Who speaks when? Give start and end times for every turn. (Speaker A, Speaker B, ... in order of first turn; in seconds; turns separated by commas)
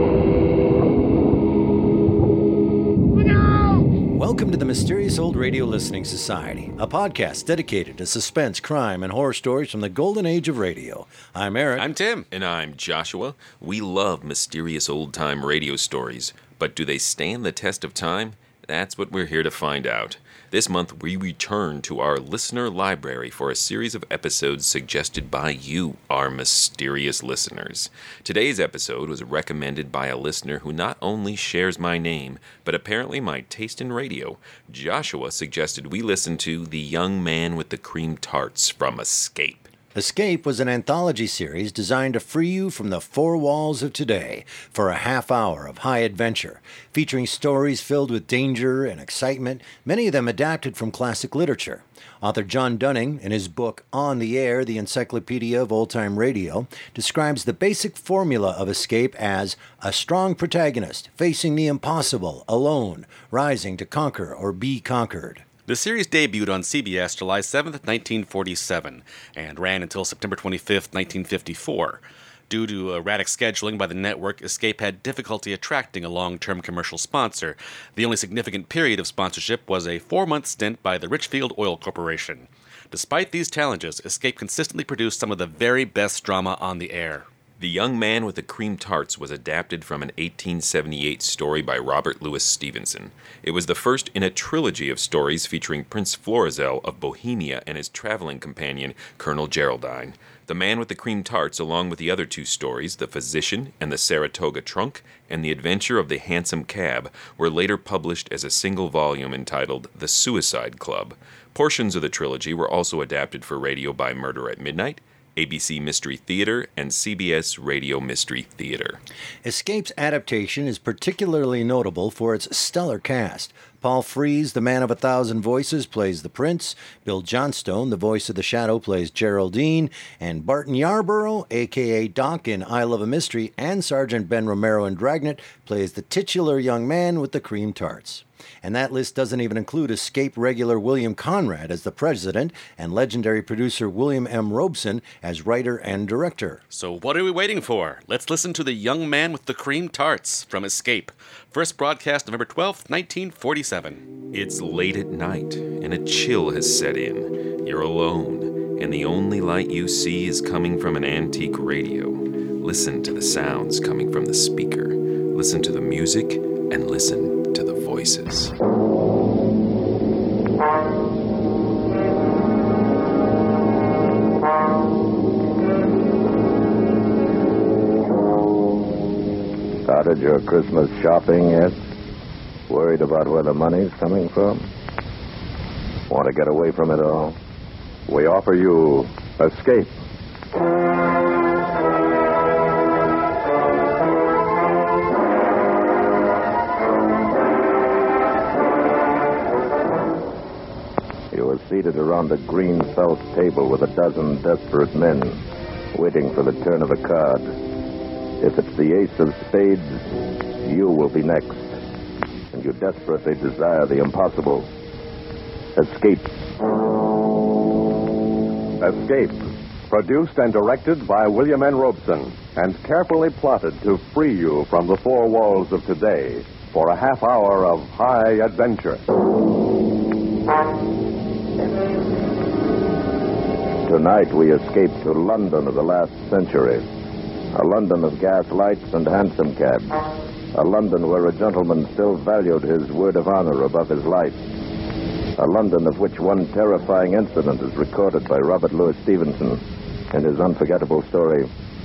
Speaker A: 4.1-11.9, Speaker B: 11.8-12.2, Speaker C: 12.3-39.7, Speaker A: 39.9-65.4, Speaker B: 65.7-87.2, Speaker C: 87.6-119.0, Speaker A: 119.4-146.6, Speaker B: 146.7-154.0, Speaker C: 154.3-168.5, Speaker D: 179.9-181.8, Speaker D: 182.7-184.7, Speaker D: 186.1-187.3, Speaker E: 188.1-189.9, Speaker D: 201.3-205.4, Speaker D: 205.9-207.5, Speaker D: 208.4-210.0, Speaker D: 210.6-211.7, Speaker D: 212.5-214.7, Speaker D: 215.7-216.3, Speaker E: 218.8-229.0, Speaker D: 233.8-236.9, Speaker D: 237.5-239.9, Speaker D: 240.5-244.4, Speaker D: 245.4-251.5